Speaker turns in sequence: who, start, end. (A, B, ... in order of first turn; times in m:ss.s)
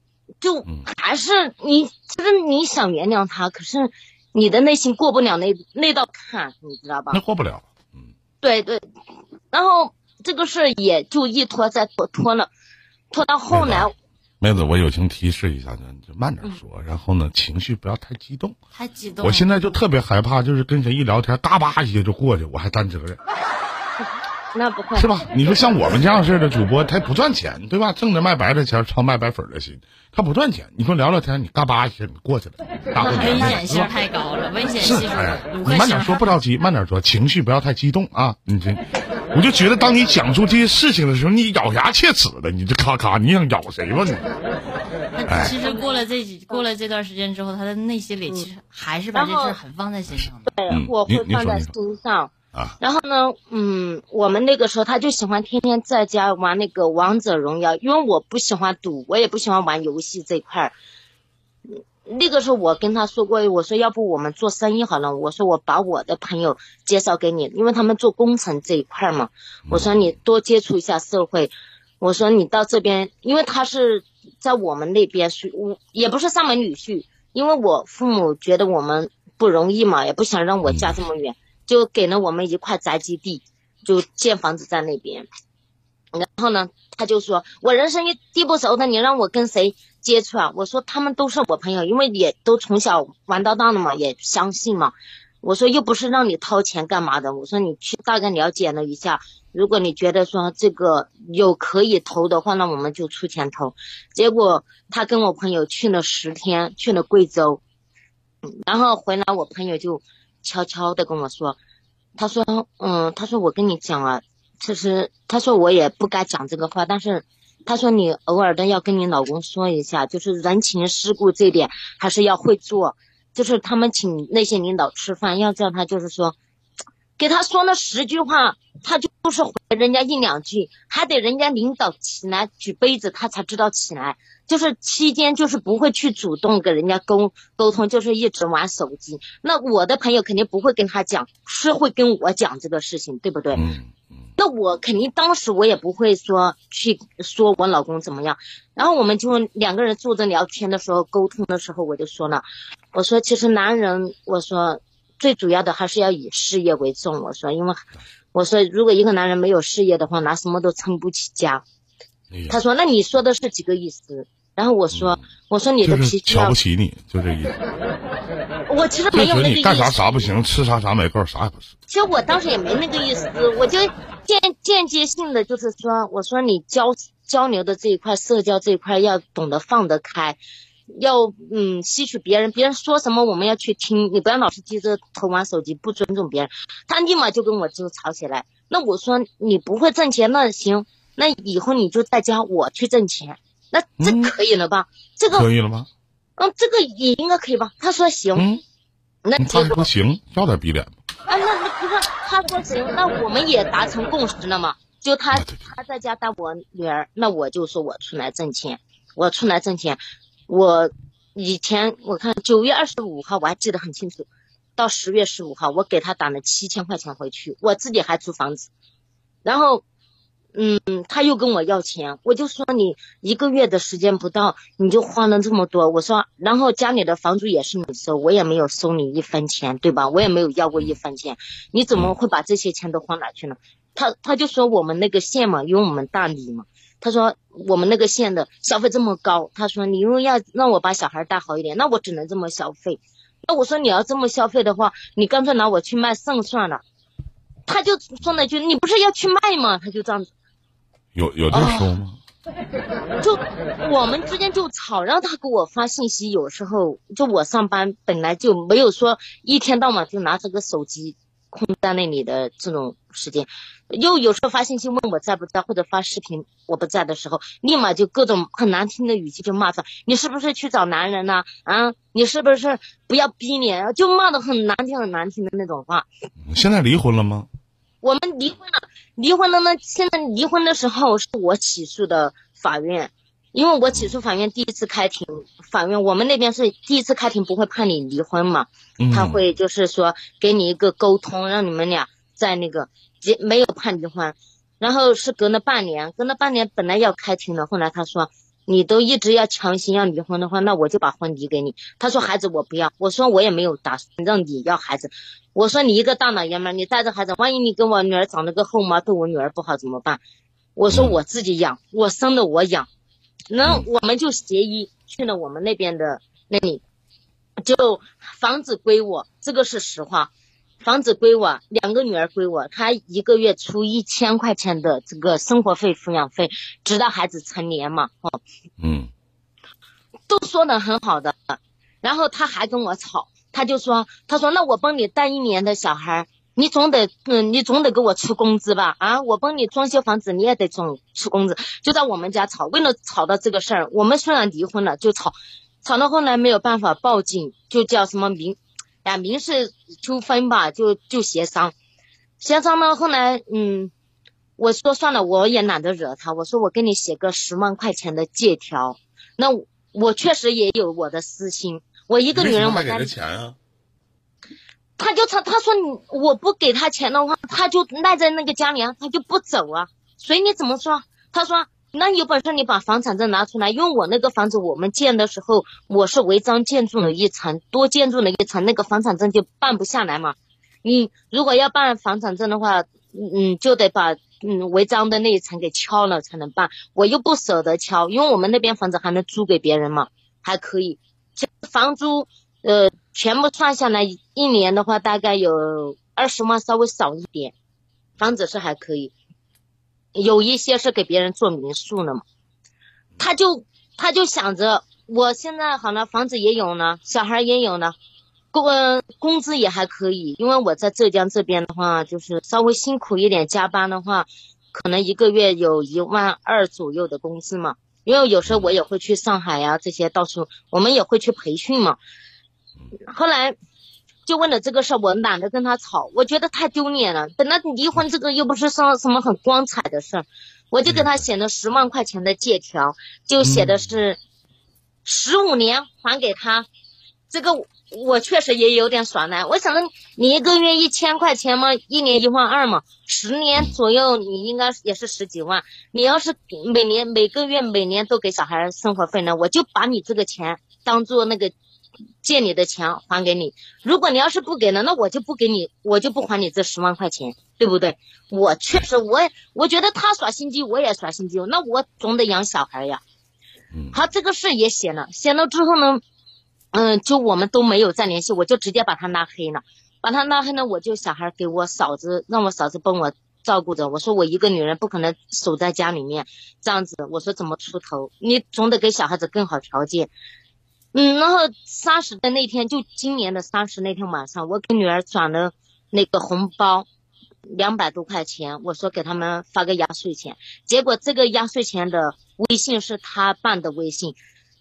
0:00.4-0:07.2 A
0:07.1-0:08.1 B
0:08.4-0:08.8 A
0:09.5-0:12.5 A
0:13.1-0:13.9 A
0:13.5-0:13.9 B
0:14.4-0:18.6 B
0:18.7-0:19.8 C
0:19.2-0:23.2 B
0:24.5-0:25.1 A
0:25.0-0:33.9 B
0:33.0-0:36.3 C
0:33.1-0:33.5 A
0:34.8-0:38.8 B
0:39.3-0:44.2 B
0:45.2-0:50.6 C
0:45.3-0:45.6 B
0:45.6-0:46.6 A
0:49.1-0:49.6 A
0:50.5-1:00.8 A
0:50.7-0:51.7 B
1:01.7-1:25.3 A
1:20.7-1:21.0 B
1:26.1-1:47.6 A
1:48.4-1:51.6 A
1:52.2-2:06.4 A
2:07.2-2:23.6 A
2:23.6-2:24.2 B
2:24.4-2:41.6 A
2:42.3-2:42.6 B
2:42.5-2:46.6 A
2:44.9-2:45.3 B
2:45.8-2:47.6 B
2:48.7-2:50.3 A
2:49.1-2:51.7 B
2:51.9-3:15.5 A
3:14.0-3:14.3 B
3:15.3-3:15.9 B
3:16.4-3:18.5 A
3:18.4-3:18.6 B
3:19.2-3:19.9 A
3:19.4-3:20.9 B
3:21.3-3:38.7 A
3:25.3-3:25.6 B
3:39.4-3:39.8 A
3:40.5-4:06.8 A
4:07.7-4:10.3 A
4:11.2-4:12.2 B
4:11.5-4:11.8 A
4:13.2-4:36.1 A
4:36.5-4:37.5 B
4:38.0-5:10.2 A
4:49.0-4:49.4 B
5:10.8-5:12.9 A
5:13.5-5:16.8 A
5:17.6-5:28.4 A
5:28.8-5:29.1 B
5:30.3-5:51.8 A
5:52.4-5:53.9 A
5:54.6-6:03.1 A
6:02.3-6:03.6 B
6:05.0-6:37.5 A
6:38.2-6:39.1 A
6:40.1-6:42.2 A
6:43.2-6:48.0 A
6:48.5-7:02.0 A
7:03.0-7:03.6 A
7:04.3-7:14.2 A
7:13.4-7:13.8 B
7:15.0-7:16.7 A
7:17.3-7:31.5 A
7:32.2-7:43.0 A
7:43.7-7:44.0 B
7:43.9-7:46.0 A
7:46.7-8:00.1 A
8:00.9-8:06.9 A
8:07.5-8:14.2 A